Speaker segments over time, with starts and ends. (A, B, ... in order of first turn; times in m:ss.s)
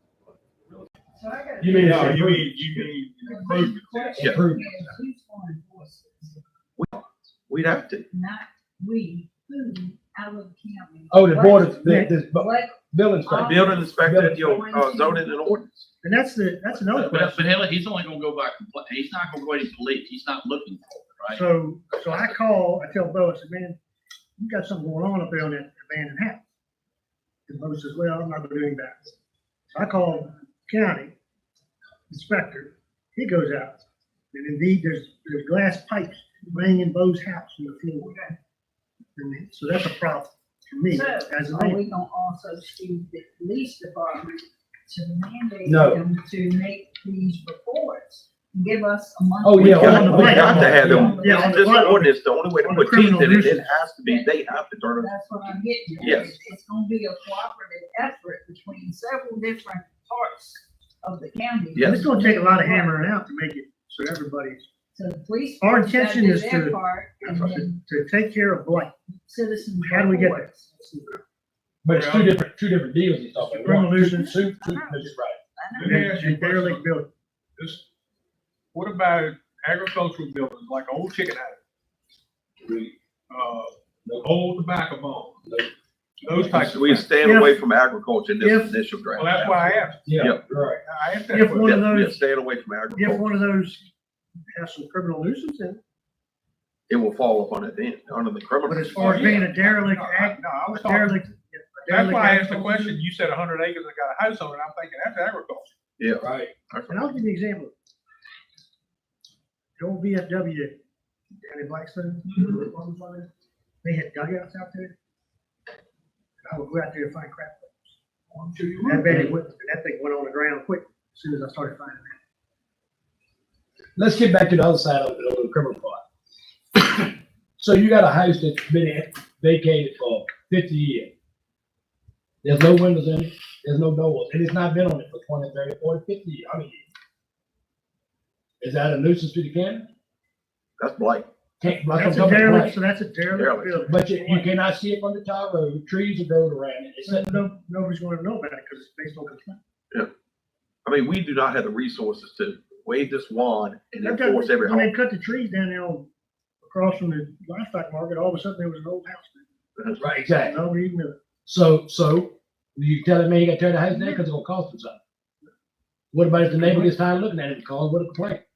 0:01.1-0:02.2 A
0:01.6-0:02.8 B
0:01.8-0:04.3 C
0:03.2-0:06.4 A
0:04.2-0:04.8 B
0:06.8-0:08.1 D
0:08.1-0:15.4 A
0:11.1-0:14.6 B
0:11.8-0:12.2 E
0:13.4-0:15.9 D
0:16.0-0:17.5 E
0:16.9-0:21.4 F
0:21.3-0:23.8 E
0:24.4-0:26.4 E
0:27.5-0:29.1 E
0:29.7-0:31.1 E
0:32.1-0:33.8 E
0:34.3-0:38.1 E
0:38.0-0:38.4 A
0:39.2-0:41.8 E
0:40.9-0:51.7 A
0:45.6-0:46.0 B
0:49.4-0:51.2 B
0:49.6-0:55.1 D
0:49.8-0:53.8 E
0:53.9-1:03.0 A
0:56.0-0:56.4 D
1:01.7-1:02.1 D
1:01.8-1:04.7 E
1:04.9-1:07.8 A
1:05.6-1:08.9 E
1:09.3-1:10.7 A
1:09.8-1:11.2 E
1:11.8-1:15.4 B
1:11.9-1:12.3 C
1:13.4-1:14.4 E
1:14.1-1:16.0 A
1:15.7-1:16.9 C
1:15.8-1:17.1 E
1:17.6-1:17.8 C
1:18.7-1:21.6 C
1:22.6-1:22.9 B
1:23.3-1:25.4 C
1:25.4-1:25.7 B
1:26.2-1:27.1 C
1:26.3-1:26.8 B
1:26.7-1:30.4 D
1:27.2-1:27.6 E
1:28.4-1:28.8 E
1:29.1-1:30.1 C
1:30.0-1:30.8 B
1:30.8-1:31.8 C
1:31.3-1:32.2 E
1:31.6-1:33.3 D
1:32.9-1:33.9 E
1:34.5-1:35.8 E
1:36.9-1:39.4 D
1:38.6-1:43.0 E
1:38.9-1:41.2 C
1:41.9-1:45.7 C
1:46.0-1:47.1 D
1:46.2-1:46.5 B
1:46.9-1:47.7 E
1:49.8-1:50.7 E
1:51.4-1:53.3 E
1:53.8-1:54.9 E
1:56.4-1:57.9 E
1:58.3-1:59.3 C
1:58.8-2:02.2 E
2:04.0-2:06.0 B
2:06.7-2:11.1 B
2:12.4-2:16.9 B
2:18.6-2:19.9 B
2:20.8-2:21.3 D
2:21.6-2:22.8 B
2:21.9-2:24.5 E
2:23.3-2:23.8 D
2:23.9-2:27.4 B
2:27.0-2:29.6 E
2:30.8-2:34.9 D
2:34.0-2:36.1 E
2:36.6-2:39.4 E
2:40.0-2:40.6 B
2:40.4-2:41.2 E
2:41.4-2:45.0 B
2:43.9-2:44.2 E
2:46.1-2:48.4 B
2:46.6-2:46.9 E